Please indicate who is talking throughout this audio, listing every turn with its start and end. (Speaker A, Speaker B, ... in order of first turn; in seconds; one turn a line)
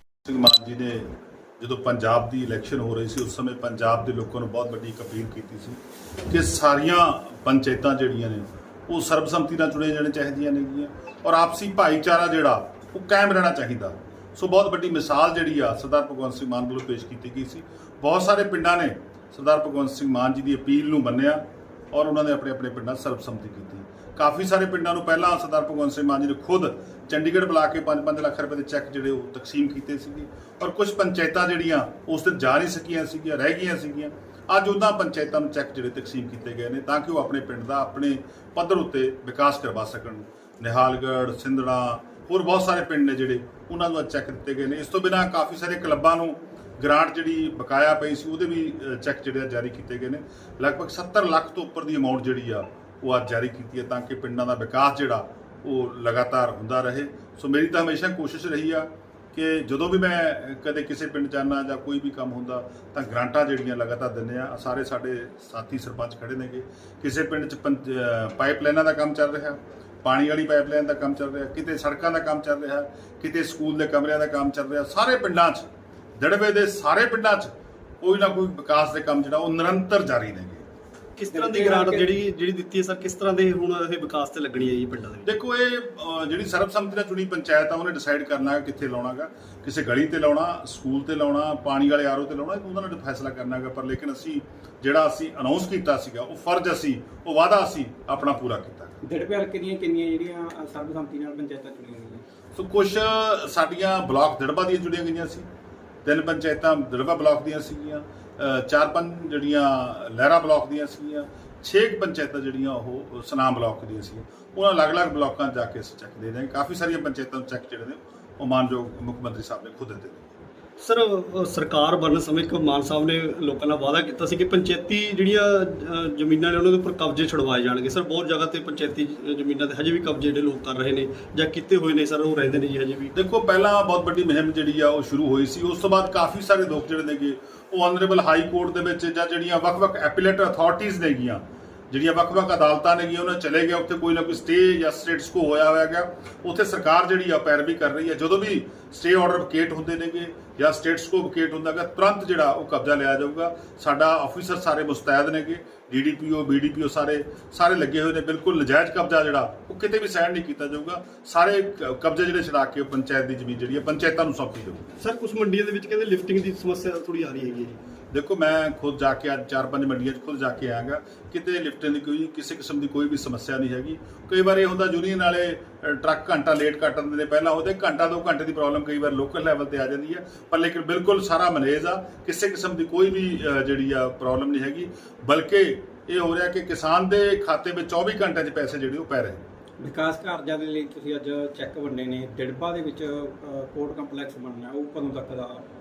Speaker A: 0.2-75.7
Speaker A: 76.2-80.6
Speaker B: 81.2-85.3
Speaker C: 81.3-82.1
Speaker A: 85.2-99.0
Speaker C: 99.0-102.2
Speaker A: 102.5-105.5
Speaker A: 106.0-120.3
Speaker B: 120.8-133.1
Speaker A: 133.1-164.9
Speaker B: 165.0-167.8
Speaker A: 168.1-189.4
Speaker C: 189.8-195.7